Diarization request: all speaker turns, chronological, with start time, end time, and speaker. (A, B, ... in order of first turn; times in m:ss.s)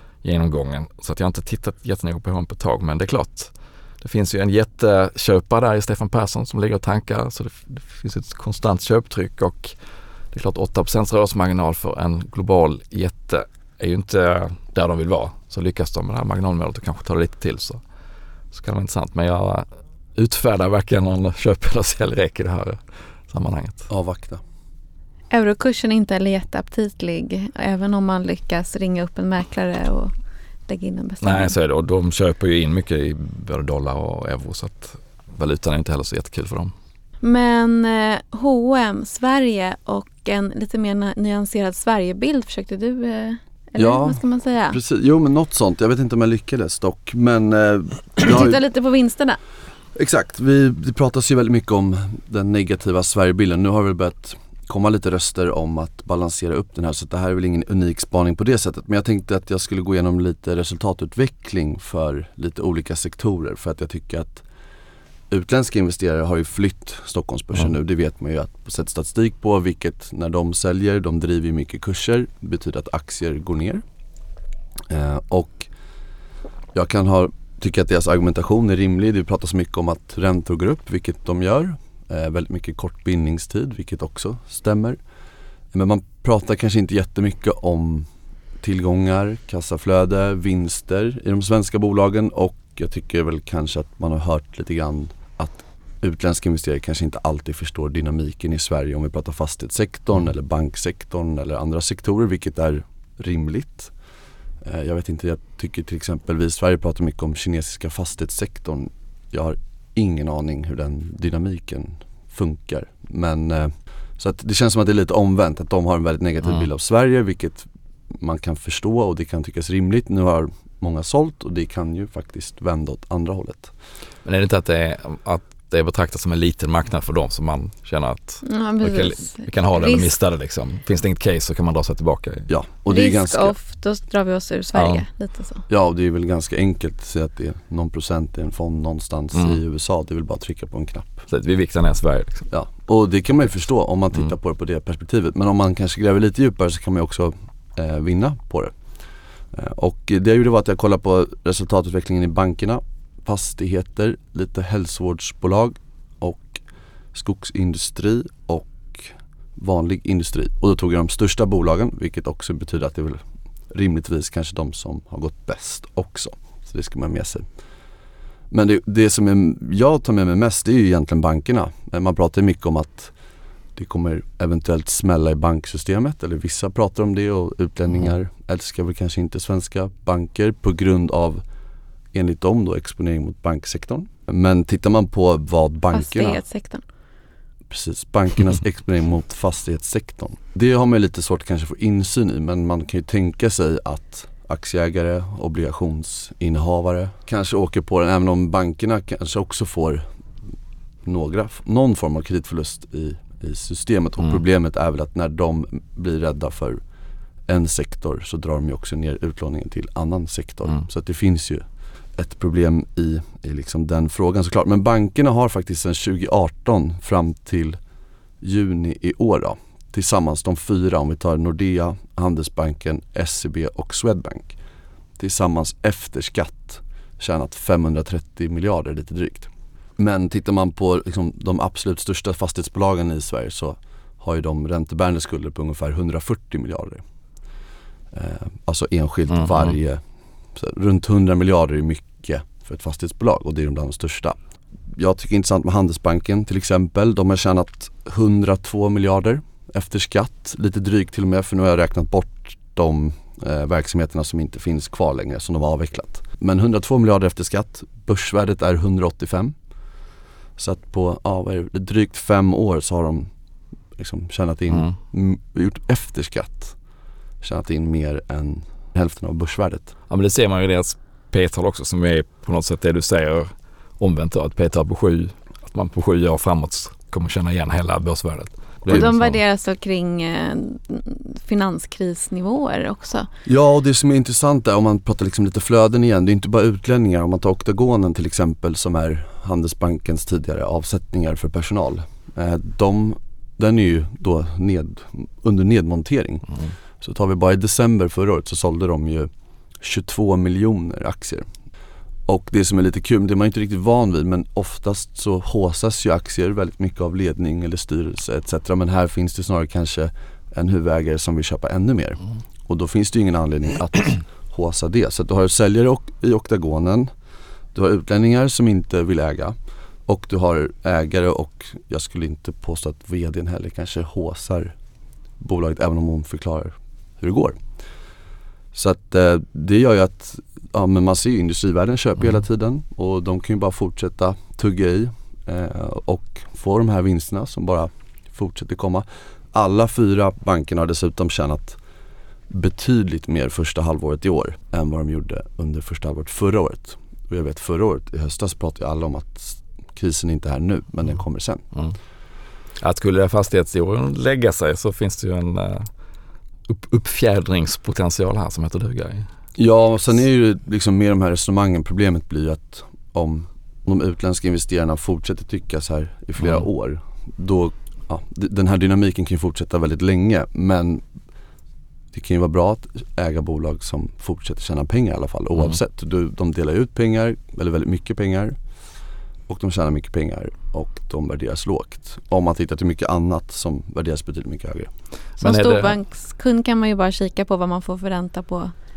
0:00.2-0:09.8 A
0:10.3-0:17.8 A
0:18.5-0:23.9 A
0:23.9-0:24.4 B
0:25.3-0:30.1 C
0:30.7-0:31.5 C
0:31.2-0:36.7 A
0:37.2-0:44.8 C
0:43.8-0:48.6 B
0:48.2-0:49.4 C
0:50.0-1:04.4 B
1:05.3-1:13.8 B
1:14.9-1:15.7 B
1:16.7-1:25.0 B
1:25.7-1:28.1 B
1:28.6-1:43.9 B
1:44.6-2:03.7 B
2:04.2-2:12.5 A
2:08.4-2:10.1 C
2:12.5-2:13.6 B
2:12.9-2:15.6 C
2:14.7-2:15.0 A
2:15.7-2:21.3 B
2:19.4-2:19.6 A
2:21.3-2:22.5 A
2:22.5-2:28.8 B
2:29.5-2:36.6 B
2:37.1-2:47.5 B
2:48.5-2:53.1 B
2:53.8-3:01.4 B
3:02.1-3:06.4 B
3:05.9-3:06.8 C
3:07.7-3:20.0 B
3:21.0-3:26.8 B
3:27.5-3:31.6 B
3:32.2-3:37.8 B
3:38.4-3:44.6 B
3:45.2-3:57.0 B
3:58.1-4:00.0 B
4:00.6-4:04.4 B
4:04.9-4:19.6 B
4:20.6-4:23.3 B
4:24.0-4:26.8 B
4:27.4-4:29.9 B
4:30.1-4:39.4 A
4:38.9-4:43.3 C
4:43.5-5:01.5 B
5:02.3-5:17.1 B
5:17.7-5:24.8 B
5:25.4-5:27.6 B
5:28.7-5:41.8 B
5:42.5-5:51.6 B
5:52.8-5:55.9 A
5:56.7-5:59.3 A
5:59.6-6:11.0 B
6:06.4-6:06.6 A
6:12.1-6:18.6 B
6:19.5-6:24.9 B
6:25.4-6:26.0 A
6:25.4-6:28.7 C